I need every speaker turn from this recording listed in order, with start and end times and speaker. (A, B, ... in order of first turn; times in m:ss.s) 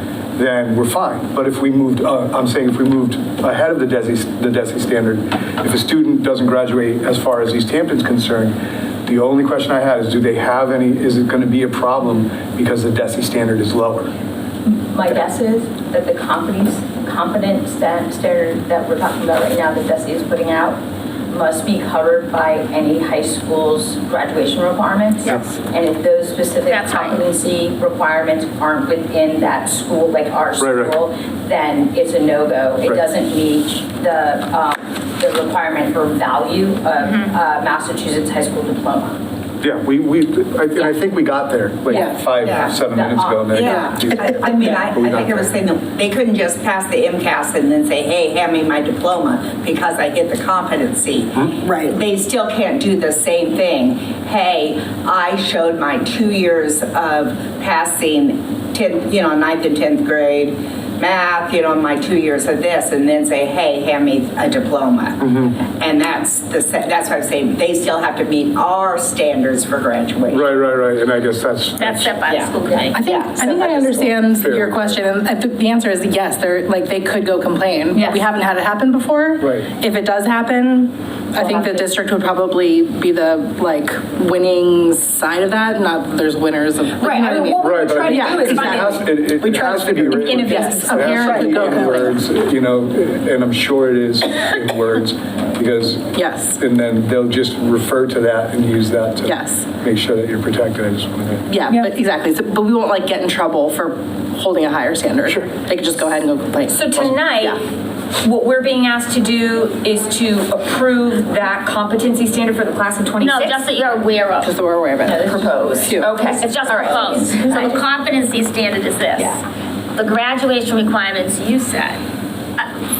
0:00.4-0:14.1 A
0:14.6-0:20.8 B
0:21.3-0:39.2 B
0:26.7-0:27.2 C
0:30.6-0:31.0 A
0:37.0-0:37.3 C
0:39.6-0:45.6 A
0:41.9-0:42.3 D
0:42.4-0:42.8 E
0:42.8-0:44.1 B
0:43.5-1:10.5 E
1:05.2-1:05.5 A
1:10.3-1:12.1 A
1:11.8-1:13.0 C
1:12.3-1:12.5 E
1:12.9-1:32.2 D
1:13.4-1:14.9 A
1:17.9-1:18.2 F
1:19.4-1:19.7 A
1:21.4-1:21.7 F
1:27.0-1:29.0 F
1:27.6-1:41.5 A
1:30.1-1:31.4 F
1:36.1-1:36.6 D
1:39.2-1:39.6 D
1:41.5-1:46.8 D
1:46.7-1:47.6 F
1:48.2-1:53.6 F
1:53.2-1:54.5 C
1:54.4-1:56.1 D
1:55.0-1:56.0 B
1:55.9-1:56.4 F
1:56.3-1:59.4 C
1:56.6-1:57.8 B
2:00.0-2:02.0 C